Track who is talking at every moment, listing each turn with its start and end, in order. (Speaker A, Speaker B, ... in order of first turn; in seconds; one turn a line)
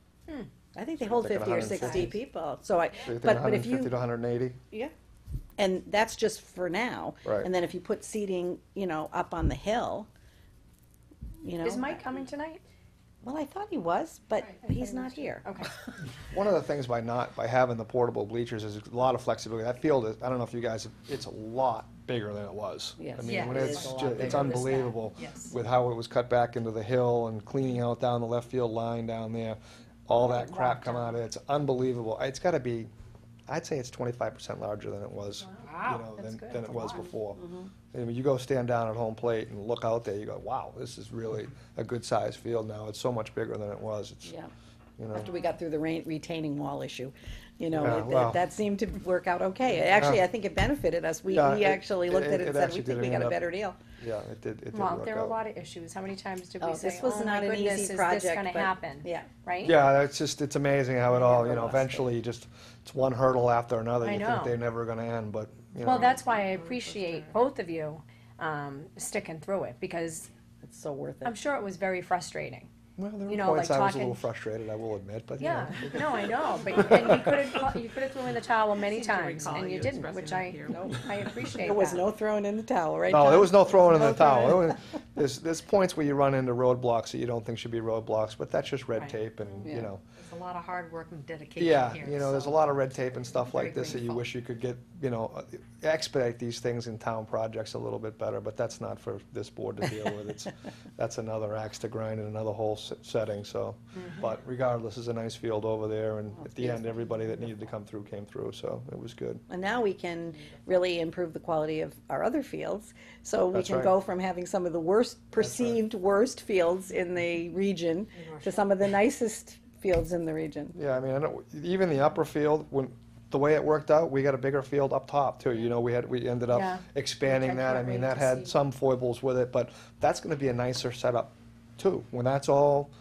Speaker A: 0.8-3.9
Speaker B: 1.0-2.2
Speaker B: 3.0-4.6
Speaker A: 5.6-10.1
Speaker A: 11.4-12.0
Speaker C: 11.6-12.6
Speaker A: 13.2-15.5
Speaker C: 14.5-15.8
Speaker B: 16.3-32.9
Speaker A: 23.0-24.9
Speaker C: 23.2-25.5
Speaker C: 30.2-31.1
Speaker B: 33.5-44.3
Speaker C: 35.5-37.1
Speaker A: 37.3-37.7
Speaker A: 44.2-44.5
Speaker B: 45.0-45.3
Speaker A: 45.1-53.8
Speaker B: 47.8-48.4
Speaker B: 50.0-50.2
Speaker B: 51.3-53.4
Speaker B: 54.0-55.4
Speaker C: 54.7-59.8
Speaker A: 56.6-59.3
Speaker B: 59.6-66.2
Speaker A: 61.1-62.1
Speaker C: 64.0-64.6
Speaker C: 65.8-70.3
Speaker D: 65.9-67.2
Speaker A: 70.6-71.4
Speaker C: 71.2-72.7
Speaker B: 73.0-76.3
Speaker C: 73.3-74.2
Speaker C: 75.4-82.0
Speaker B: 76.9-77.5
Speaker D: 78.8-80.9
Speaker A: 80.7-84.5
Speaker B: 83.1-90.0
Speaker D: 90.2-92.6
Speaker B: 91.6-109.4
Speaker D: 93.5-94.1
Speaker A: 106.4-107.1
Speaker A: 109.5-120.8
Speaker B: 113.5-113.9
Speaker B: 115.4-115.8
Speaker B: 120.8-132.9
Speaker C: 126.5-128.6